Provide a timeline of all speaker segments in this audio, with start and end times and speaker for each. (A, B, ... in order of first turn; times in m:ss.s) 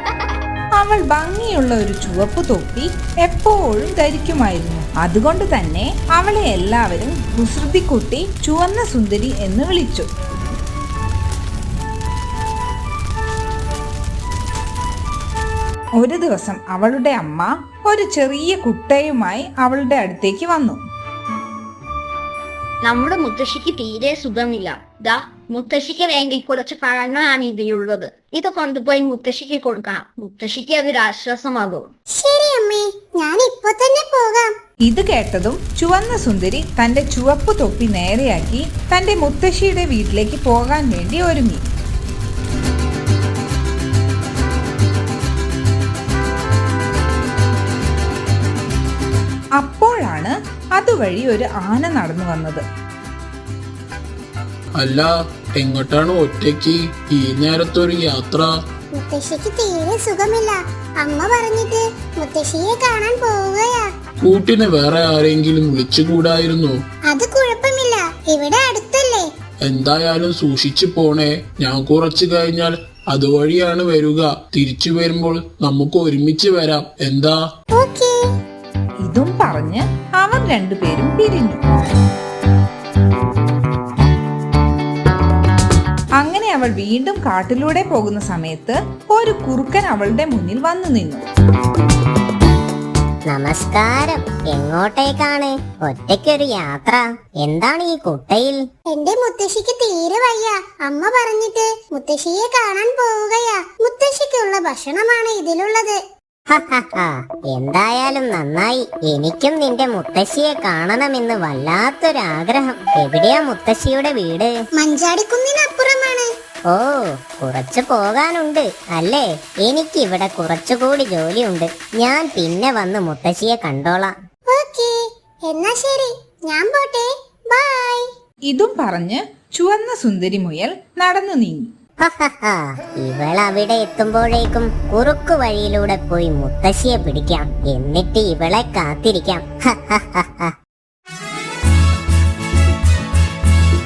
0:00.8-0:10.1 A
0:16.0-0:20.8 A
0:22.8-0:31.9 B
0:32.2-0:34.5 C
0:34.9-0:41.6 A
0:49.6-0:52.6 A
0:54.7-0:58.5 D
0:58.9-1:03.9 C
1:04.2-1:06.8 D
1:07.1-1:09.3 C
1:09.6-1:17.4 D
1:17.7-1:18.1 C
1:19.0-1:21.6 A
1:26.2-1:31.2 A
1:33.3-1:38.6 E
1:38.9-1:46.0 C
1:46.5-1:54.6 E
1:54.8-1:56.3 C
1:56.7-2:04.2 E
2:04.5-2:04.9 C
2:05.5-2:08.0 C
2:08.5-2:11.7 A
2:12.0-2:20.5 E